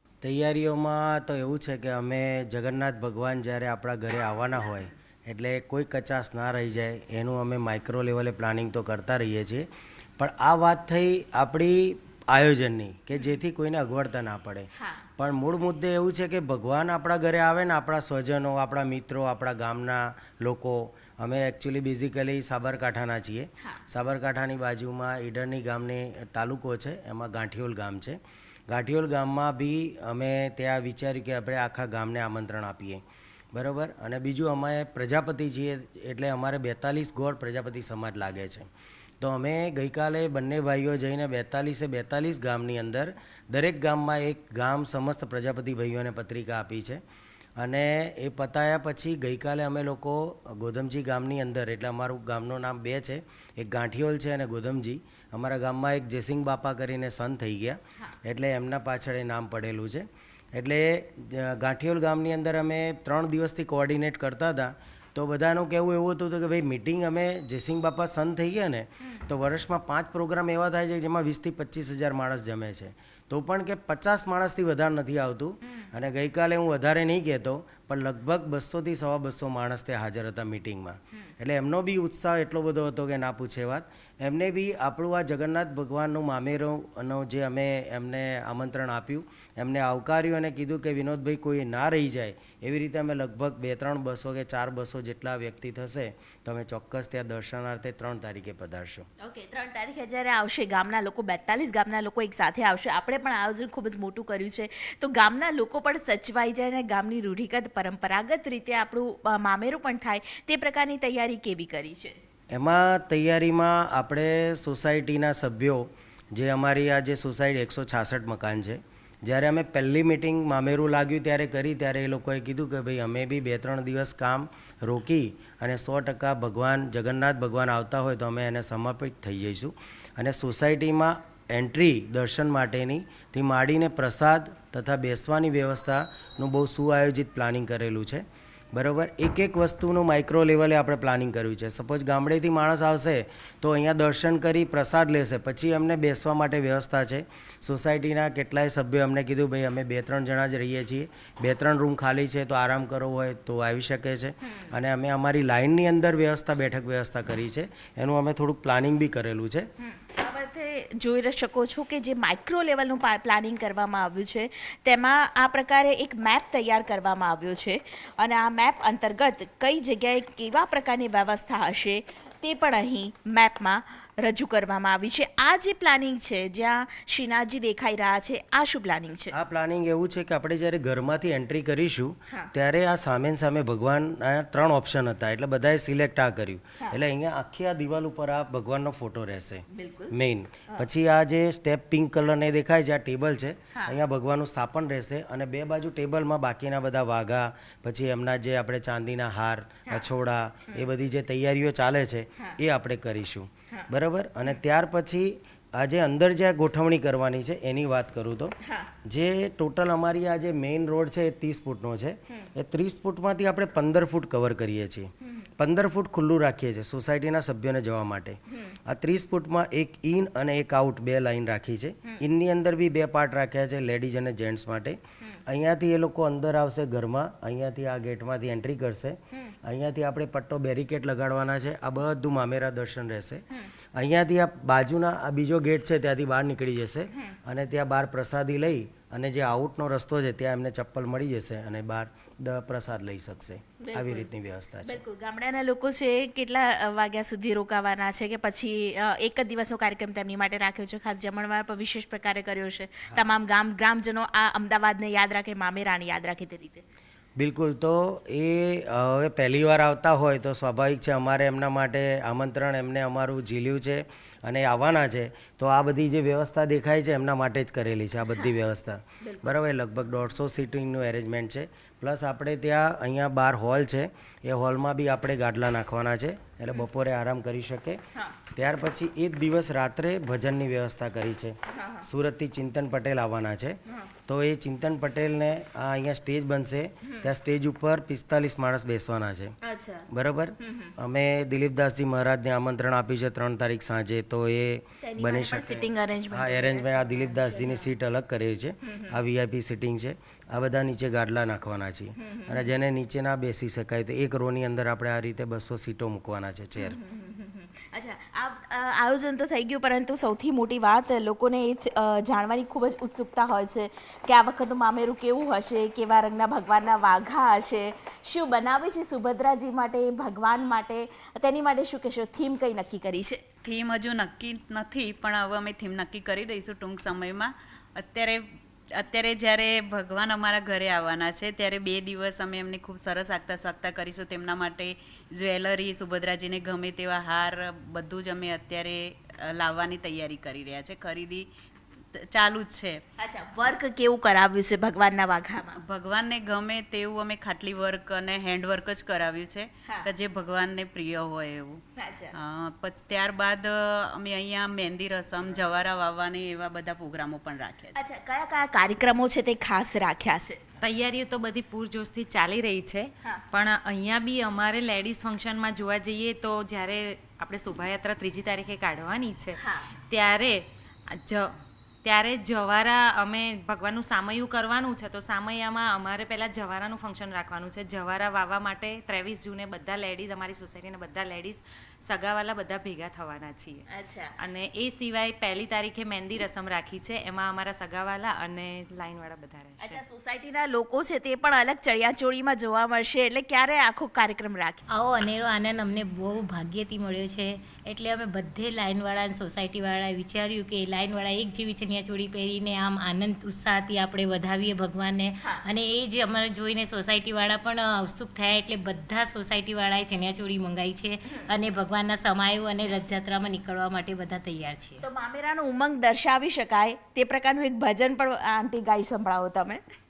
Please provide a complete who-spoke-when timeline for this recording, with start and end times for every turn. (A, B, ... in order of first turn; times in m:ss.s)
0:00.2-0:09.7 A
0:10.2-0:33.0 A
0:14.8-0:15.0 B
0:33.5-0:38.7 A
0:39.2-0:47.0 A
0:47.6-1:39.1 A
1:39.2-1:52.2 B
1:52.5-2:39.7 A
2:39.8-2:59.3 B
2:59.3-3:53.4 A
3:09.7-3:10.1 B
3:28.6-3:28.9 B
3:54.0-4:05.0 A
4:03.8-4:04.3 B
4:04.8-4:16.8 B
4:17.4-4:38.0 A
4:29.2-4:29.5 B
4:38.5-4:49.5 A
4:41.7-4:42.1 B
4:49.6-4:50.1 B
4:50.1-5:07.0 A
4:50.6-4:50.9 B
4:55.0-4:57.9 B
4:58.9-4:59.1 B
5:02.2-5:02.7 B
5:06.8-5:23.4 B
5:23.6-5:28.4 C
5:29.0-5:41.5 C
5:42.2-5:43.0 C
5:43.2-5:45.8 B
5:45.8-5:51.8 C
5:52.0-5:52.3 B
5:52.4-5:58.0 C
5:58.0-6:00.6 B
6:00.8-6:09.6 D
6:09.6-6:09.9 B
6:10.1-6:10.6 D
6:11.1-6:11.5 D
6:12.0-6:23.8 D
6:23.9-6:24.3 B
6:24.4-6:30.0 D
6:29.8-6:34.8 B
6:34.9-6:55.0 E
6:55.0-6:59.8 B